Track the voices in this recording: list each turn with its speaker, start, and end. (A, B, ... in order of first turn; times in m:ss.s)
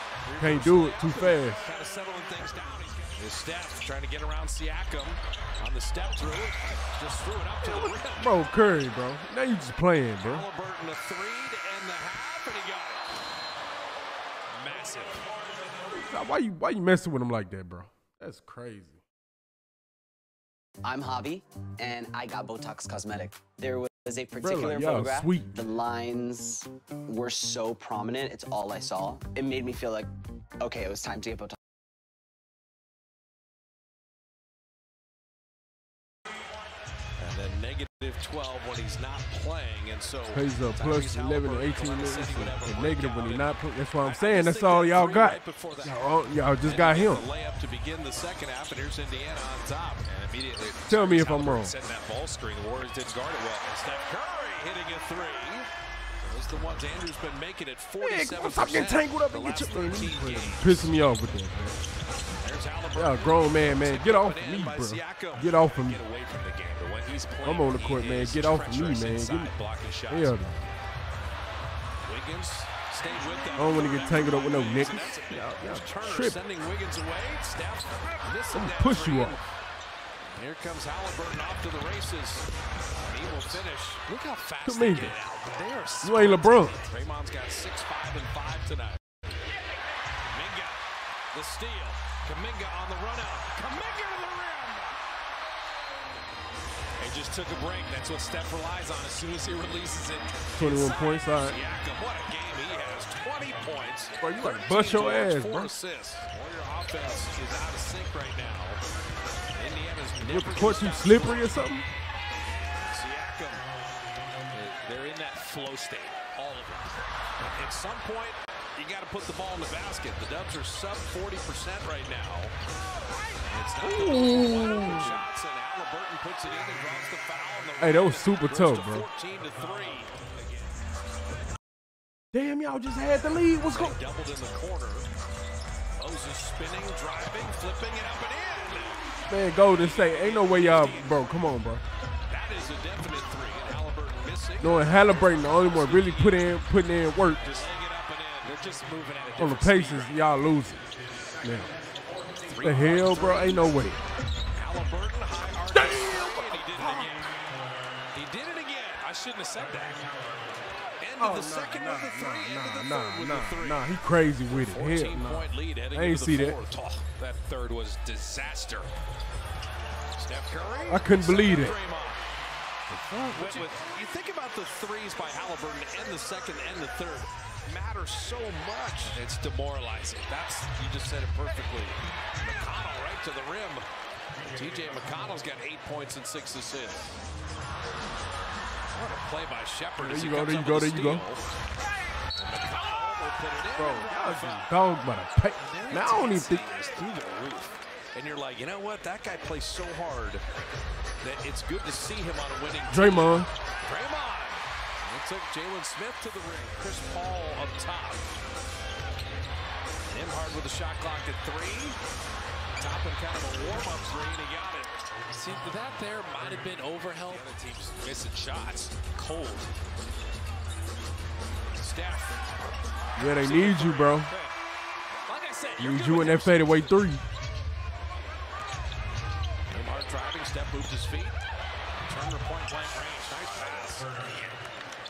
0:00.2-0:08.4 A
0:00.4-0:01.7 B
0:07.6-0:10.4 B
0:10.2-0:13.1 A
0:14.6-0:15.3 A
0:15.9-0:19.0 B
0:20.8-0:31.6 C
0:24.4-0:25.6 B
0:37.2-0:46.0 A
0:40.3-0:47.2 B
0:46.6-0:50.1 A
0:50.1-0:53.6 D
0:50.9-0:51.8 B
0:53.6-1:00.9 A
0:58.0-1:01.8 B
1:02.4-1:05.7 A
1:03.0-1:06.0 B
1:05.7-1:07.5 D
1:07.1-1:10.4 A
1:07.4-1:09.5 B
1:10.1-1:10.6 B
1:12.0-1:19.4 A
1:13.6-1:16.4 B
1:18.5-1:19.4 B
1:20.3-1:24.1 A
1:24.0-1:26.9 D
1:24.6-1:25.2 B
1:26.0-1:26.8 B
1:26.3-1:29.0 A
1:30.2-1:33.7 A
1:33.6-1:34.8 D
1:37.0-1:40.6 D
1:40.5-1:41.6 B
1:40.6-1:48.8 A
1:44.2-1:45.7 B
1:49.5-1:51.5 A
1:50.3-1:51.9 B
1:52.9-1:53.6 A
1:54.5-1:56.5 D
1:56.4-1:56.9 A
1:57.4-2:02.5 A
2:03.4-2:10.8 A
2:03.8-2:05.2 B
2:07.8-2:09.1 B
2:12.3-2:14.0 B
2:13.7-2:15.1 A
2:16.0-2:19.0 A
2:19.3-2:21.8 B
2:19.6-2:21.2 A
2:22.3-2:26.5 A
2:24.6-2:27.4 B
2:27.4-2:27.7 D
2:27.4-2:28.5 A
2:28.4-2:30.1 D
2:29.4-2:30.9 B
2:31.4-2:31.7 B
2:32.5-2:33.7 A
2:32.6-2:34.0 B
2:34.5-2:37.3 A
2:35.7-2:37.1 B
2:38.1-2:39.1 A
2:39.0-2:40.0 D
2:41.0-2:43.9 A
2:41.2-2:46.6 B
2:44.5-2:47.1 A
2:47.1-2:48.9 D
2:50.2-2:52.2 A
2:50.9-2:51.8 B
2:52.9-2:53.7 B
2:53.3-2:59.2 A
2:59.1-3:00.3 D
3:00.3-3:03.9 A
3:04.5-3:07.1 A
3:08.9-3:11.4 A
3:10.0-3:11.3 B
3:12.4-3:14.7 A
3:13.8-3:16.6 B
3:15.6-3:17.1 A
3:16.3-3:17.8 D
3:18.1-3:20.4 A
3:21.2-3:28.3 A
3:22.9-3:23.5 B
3:30.1-3:32.0 A
3:32.8-3:34.9 A
3:35.3-3:39.7 D
3:37.3-3:37.5 A
3:41.8-3:42.4 A
3:43.2-3:44.3 B
3:43.4-3:44.5 D
3:45.2-3:46.6 D
3:45.8-3:47.2 B
3:45.9-3:46.9 A
3:49.7-3:51.4 A
3:52.0-3:54.1 A
3:54.1-3:54.5 D